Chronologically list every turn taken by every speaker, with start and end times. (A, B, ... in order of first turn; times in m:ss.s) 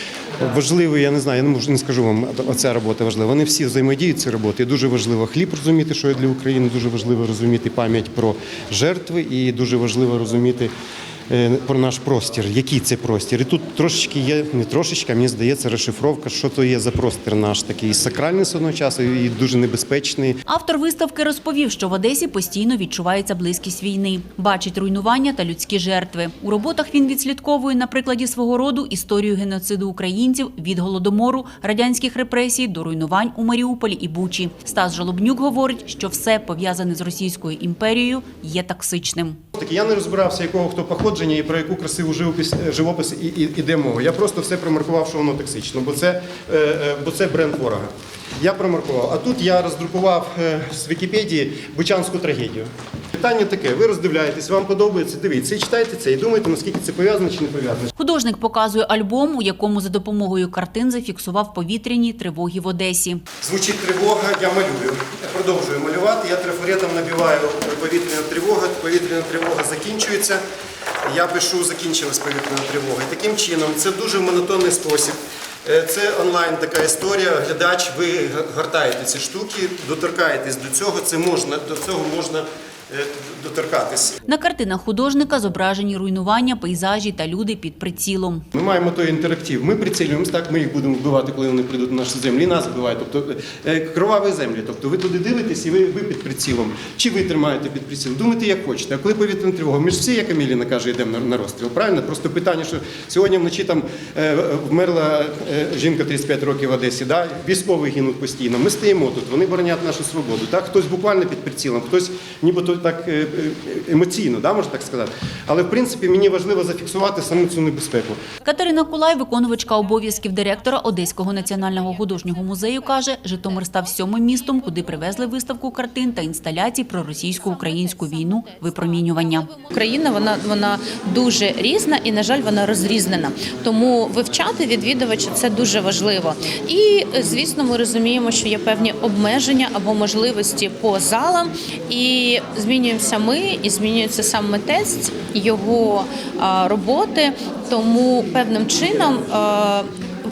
0:00.4-0:10.7 A
0:11.3-0:20.4 A
0:20.5-0:39.4 B
0:39.5-0:57.9 A
0:58.0-1:03.2 B
1:03.4-1:10.4 A
1:11.0-1:24.2 A
1:24.2-1:28.4 B
1:28.5-1:58.2 A
1:58.4-2:09.5 B
2:08.1-2:29.9 C